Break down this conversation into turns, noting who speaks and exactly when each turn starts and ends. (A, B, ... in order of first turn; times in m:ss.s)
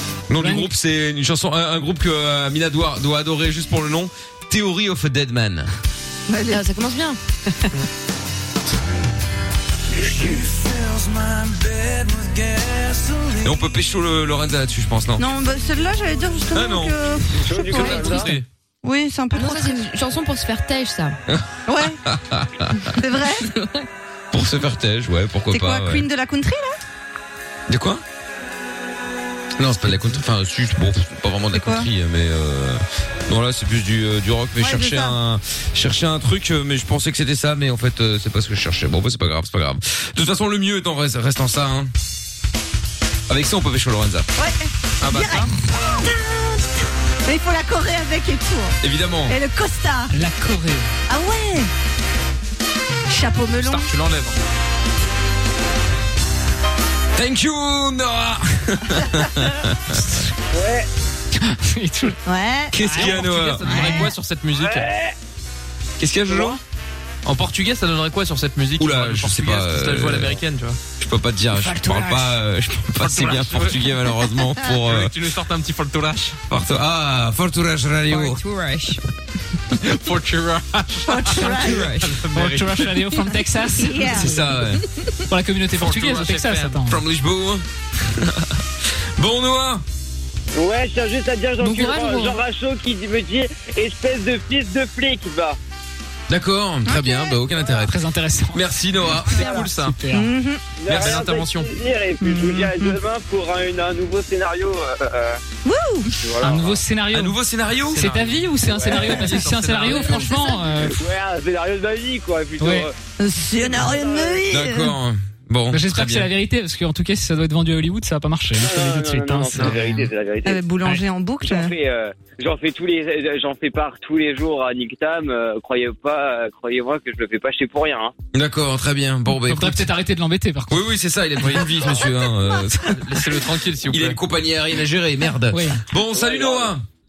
0:00.3-0:05.7 A
0:00.4-0:00.7 B
0:06.3-0:06.6 C
0:06.5-0:07.2 D
0:13.4-0:15.3 A
0:15.2-0:19.8 C
0:16.5-0:17.0 A
0:17.4-0:18.3 E
0:17.8-0:18.1 D
0:17.8-0:18.5 F
0:19.3-0:21.2 D
0:21.3-0:23.0 A
0:21.7-0:22.0 C
0:23.0-0:23.5 C
0:23.5-0:23.8 D
0:24.3-0:26.1 A
0:25.5-0:26.8 C
0:27.7-0:28.0 A
0:29.6-0:41.9 A
0:31.5-0:31.9 C
0:34.6-0:35.2 C
0:43.3-0:44.3 A
0:44.4-0:46.7 C
0:45.0-0:45.5 F
0:47.3-0:50.1 C
0:48.8-0:49.4 A
0:50.1-0:50.9 B
0:51.1-0:51.7 C
0:53.1-0:53.9 C
0:53.6-0:54.4 F
0:57.2-1:00.0 A
1:00.5-1:00.9 E
1:01.4-1:02.2 B
1:02.2-1:02.8 C
1:02.7-1:03.8 A
1:02.8-1:04.9 F
1:02.9-1:03.2 B
1:03.6-1:04.1 C
1:04.6-1:05.2 E
1:06.0-1:06.6 A
1:06.3-1:06.6 E
1:07.2-1:10.8 F
1:08.8-1:10.4 A
1:11.0-1:15.1 A
1:11.6-1:12.3 C
1:13.0-1:13.9 F
1:14.8-1:16.4 F
1:16.5-1:18.4 A
1:18.1-1:19.0 D
1:19.8-1:23.0 F
1:21.0-1:21.9 C
1:21.6-1:22.1 D
1:22.3-1:24.3 B
1:23.8-1:24.4 C
1:24.1-1:24.8 A
1:25.3-1:27.0 B
1:25.8-1:26.8 F
1:26.9-1:28.6 A
1:29.2-1:29.8 A
1:30.6-1:35.6 E
1:31.6-1:32.4 D
1:36.3-1:38.0 A
1:36.9-1:37.4 C
1:37.8-1:38.6 B
1:38.5-1:39.5 A
1:39.2-1:40.0 F
1:39.5-1:40.3 B
1:40.1-1:40.6 C
1:40.8-1:45.4 E
1:40.9-1:41.2 A
1:40.9-1:41.7 F
1:42.2-1:43.0 C
1:45.6-1:46.1 C
1:46.2-1:46.8 E
1:46.4-1:47.4 B
1:47.1-1:48.1 A
1:47.9-1:50.5 F
1:48.0-1:51.0 B
1:48.7-1:49.0 E
1:50.9-1:52.9 E
1:52.6-1:52.9 B
1:53.2-1:55.0 C
1:53.6-1:54.4 E
1:54.5-1:56.3 A
1:55.7-2:00.1 B
1:58.6-2:00.6 E
1:59.5-1:59.8 F
2:00.4-2:01.7 C
2:01.4-2:08.1 E
2:08.3-2:09.9 A
2:09.4-2:10.8 B
2:10.7-2:16.8 A
2:11.4-2:11.7 F
2:12.9-2:14.2 F
2:15.5-2:15.8 B
2:16.0-2:16.7 E